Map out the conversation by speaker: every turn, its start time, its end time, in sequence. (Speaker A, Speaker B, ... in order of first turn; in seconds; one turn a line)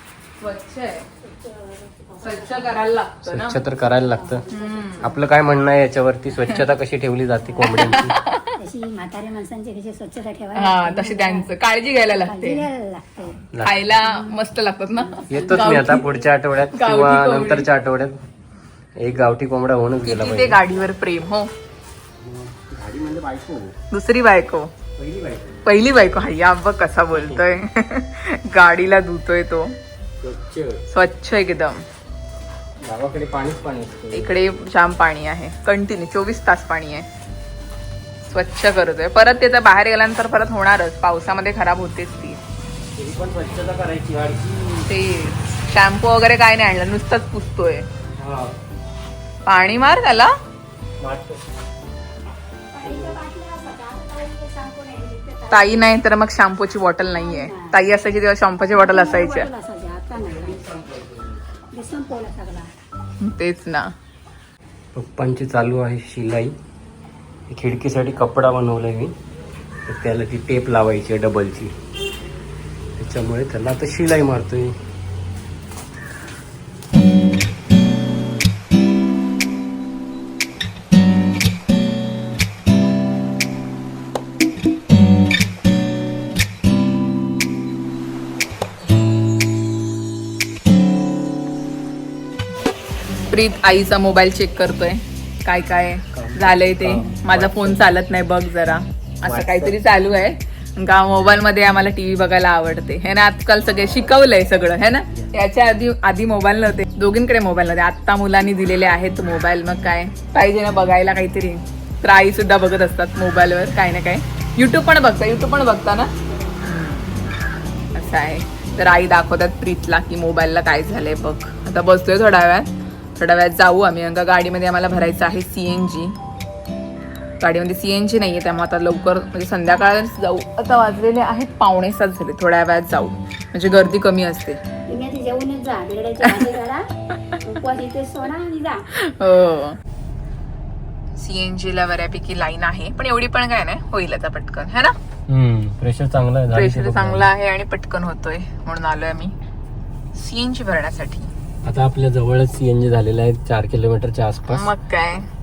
Speaker A: 0.4-1.1
Speaker B: 1.2-2.8
Speaker A: 2.2-3.6
Speaker C: 3.2-4.4
Speaker B: 4.2-5.1
Speaker A: 4.5-5.1
Speaker C: 5.0-8.2
Speaker A: 7.7-8.5
Speaker B: 8.6-11.5
Speaker A: 10.5-12.7
Speaker B: 12.2-13.5
Speaker C: 13.5-13.8
Speaker A: 13.6-16.1
Speaker B: 14.0-14.3
Speaker B: 15.1-15.4
Speaker C: 15.3-18.2
Speaker A: 16.6-17.7
Speaker C: 19.0-20.6
Speaker A: 20.0-21.5
Speaker C: 22.2-23.8
Speaker A: 23.9-24.7
Speaker C: 24.9-25.6
Speaker A: 25.6-29.8
Speaker C: 27.1-27.5
Speaker C: 30.2-30.9
Speaker A: 30.9-31.9
Speaker C: 32.8-34.3
Speaker A: 34.1-37.1
Speaker A: 38.2-42.4
Speaker C: 42.9-44.9
Speaker A: 44.9-47.9
Speaker C: 48.2-48.5
Speaker A: 49.4-50.3
Speaker C: 51.0-51.4
Speaker B: 52.7-55.9
Speaker C: 52.8-53.2
Speaker A: 55.5-59.5
Speaker B: 57.1-57.8
Speaker B: 58.7-60.8
Speaker C: 60.6-61.2
Speaker B: 61.7-62.7
Speaker A: 63.2-63.9
Speaker C: 64.9-66.5
Speaker C: 67.5-69.1
Speaker C: 69.8-71.7
Speaker C: 73.0-74.8
Speaker A: 93.3-117.3
Speaker C: 96.1-98.0
Speaker C: 99.2-99.8
Speaker A: 117.9-126.2
Speaker A: 127.4-134.6
Speaker B: 134.8-138.8
Speaker A: 138.9-139.8
Speaker A: 141.2-144.9
Speaker C: 145.3-147.3
Speaker A: 146.5-149.3
Speaker A: 150.1-151.3
Speaker C: 151.6-154.7
Speaker A: 154.5-155.3